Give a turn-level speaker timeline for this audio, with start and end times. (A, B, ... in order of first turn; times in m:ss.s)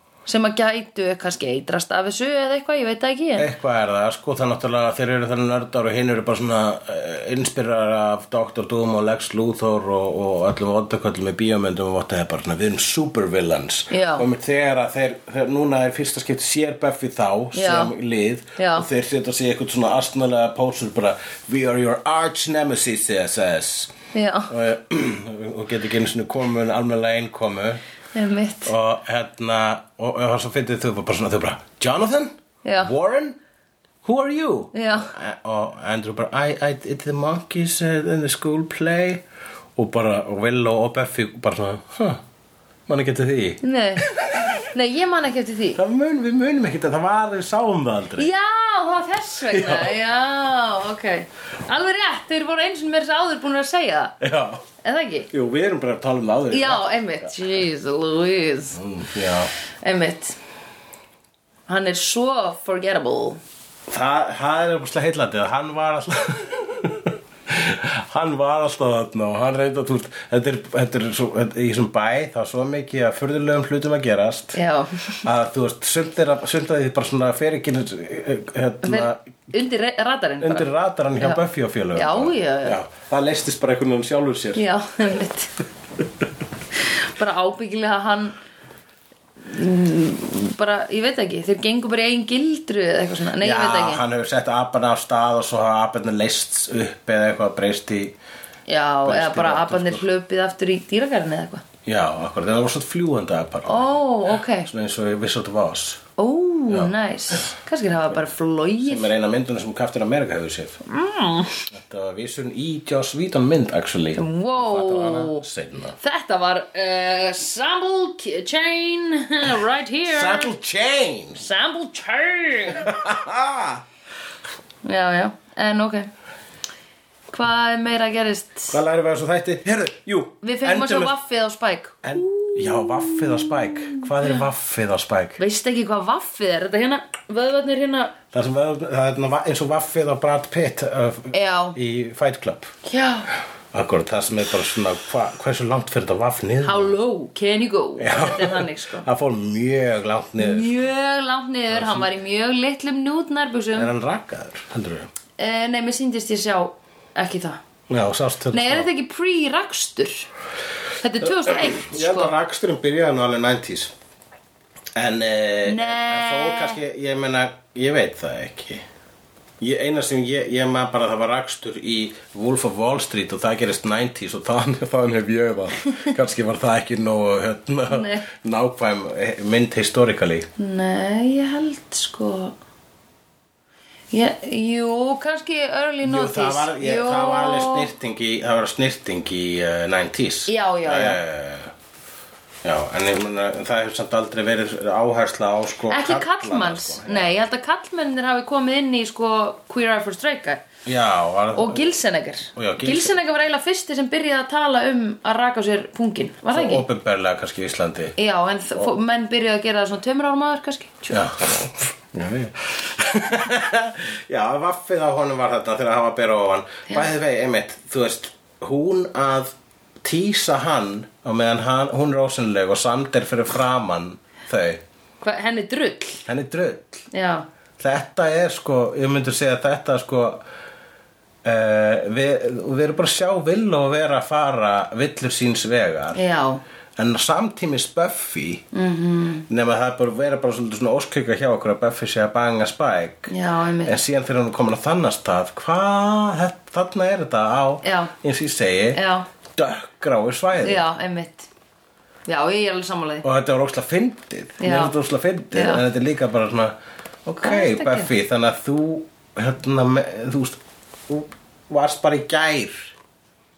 0:00.3-0:03.5 A
0:03.4-0:23.9 B
0:13.9-0:14.3 A
0:17.5-0:17.9 A
0:18.6-0:18.9 A
0:24.1-0:24.5 A
0:24.5-0:27.8 B
0:28.2-0:28.7 A
0:28.6-0:33.4 B
0:32.6-0:32.9 A
0:34.0-0:39.2 B
0:34.7-0:35.1 A
0:39.8-0:42.2 B
0:42.9-0:44.5 B
0:43.6-0:45.8 A
0:45.8-0:48.3 B
0:48.2-0:54.2 A
0:49.5-0:50.0 B
0:54.2-0:54.6 B
0:54.8-0:55.3 A
0:55.3-0:57.3 B
0:56.5-0:58.8 A
0:58.8-0:59.5 B
0:59.8-1:00.4 A
1:01.7-1:03.4 A
1:03.9-1:14.6 B
1:14.5-1:15.3 A
1:15.2-1:19.2 B
1:18.8-1:21.4 A
1:20.4-1:24.6 B
1:21.9-1:22.8 A
1:24.6-1:25.5 A
1:26.8-1:28.4 A
1:29.4-1:34.0 A
1:33.4-1:38.2 B
1:38.7-1:41.6 A
1:39.0-1:40.1 B
1:41.9-1:46.0 B
1:43.7-1:44.7 A
1:46.2-1:49.1 A
1:46.7-1:47.5 B
1:48.8-1:50.8 B
1:50.9-1:51.7 A
1:51.7-1:56.0 B
1:54.2-1:55.5 A
1:56.0-2:00.5 A
2:00.0-2:01.4 B
2:01.4-2:02.9 A
2:02.7-2:03.8 B
2:04.8-2:06.1 A
2:07.3-2:08.8 A
2:08.7-2:11.2 B
2:10.4-2:14.5 A
2:12.0-2:15.4 B
2:15.4-2:18.2 A
2:18.3-2:22.7 B
2:21.3-2:21.8 A
2:22.8-2:23.3 A
2:23.7-2:27.0 B
2:26.6-2:29.1 A
2:28.0-2:30.8 B
2:30.4-2:33.9 A
2:31.7-2:32.1 B
2:33.8-2:35.1 B
2:35.4-2:37.6 A
2:37.9-2:38.9 B
2:38.5-2:40.3 A
2:41.0-2:42.3 A
2:41.2-2:43.9 B
2:45.0-2:48.8 B
2:45.7-2:46.8 A
2:49.6-3:00.5 B
2:57.9-2:58.3 A
3:00.6-3:02.6 A
3:04.1-3:07.9 A
3:06.0-3:11.7 B
3:10.5-3:11.2 A
3:12.6-3:17.4 B
3:15.9-3:20.6 A
3:20.8-3:21.8 B
3:21.6-3:26.8 A
3:22.6-3:23.2 B
3:26.5-3:28.2 B
3:28.2-3:31.3 A
3:31.1-3:44.8 B
3:45.2-3:46.2 A
3:46.3-3:47.1 B
3:47.1-3:47.5 A
3:47.8-3:50.4 B
3:51.4-3:56.2 B
3:56.2-3:56.6 A
3:57.0-3:58.6 B
3:58.7-3:59.5 A
3:59.5-4:03.3 B
4:03.3-4:04.0 A
4:03.8-4:09.0 B
4:07.8-4:08.1 A
4:08.9-4:09.3 A
4:09.6-4:10.8 B
4:10.6-4:11.5 A
4:12.3-4:13.3 A
4:13.2-4:22.9 B
4:14.6-4:15.0 A
4:15.5-4:15.8 A
4:17.4-4:18.1 A